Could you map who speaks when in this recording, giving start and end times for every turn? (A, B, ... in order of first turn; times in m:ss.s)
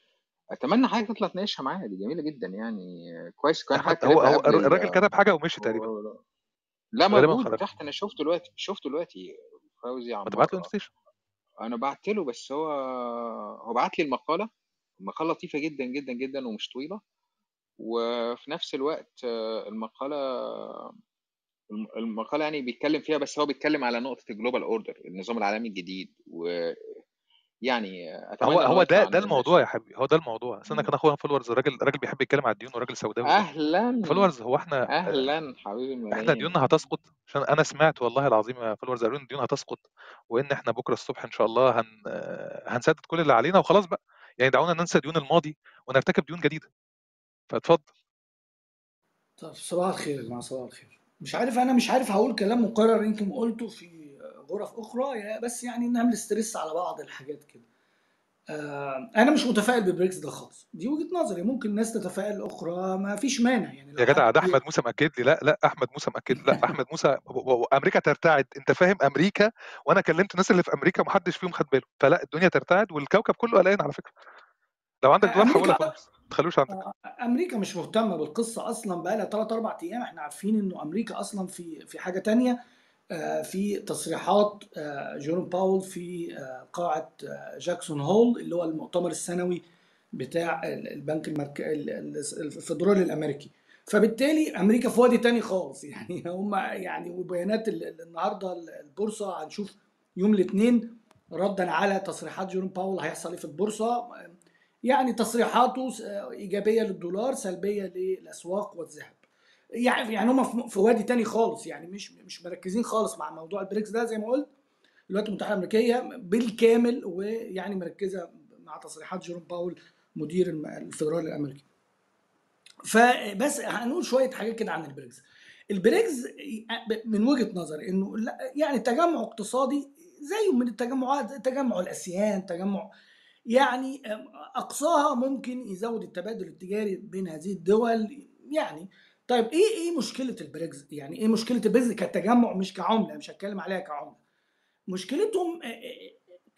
0:00.6-0:05.0 A
0:03.8-0:05.9 B
0:05.6-0:06.2 A
0:07.0-0:10.7 A
0:07.1-0:07.6 B
0:10.3-0:10.9 B
0:11.6-0:14.5 A
0:15.0-0:17.0 A
0:17.8-0:20.9 A
0:21.7-0:26.9 A
0:27.7-0:29.6 A
0:28.4-0:33.4 B
0:33.3-0:34.3 A
0:34.0-0:35.3 B
0:34.9-0:36.6 A
0:36.1-0:46.7 B
0:47.5-0:47.9 B
0:49.4-0:57.6 C
0:58.5-1:04.6 C
1:04.0-1:14.1 B
1:15.0-1:16.8 B
1:15.3-1:16.0 C
1:16.7-1:22.6 C
1:23.1-1:29.6 C
1:30.2-1:44.3 C
1:44.8-1:49.2 C
1:49.8-1:54.5 C
1:55.1-2:01.6 C
2:02.9-2:12.9 C
2:13.5-2:24.2 C
2:24.9-2:26.1 C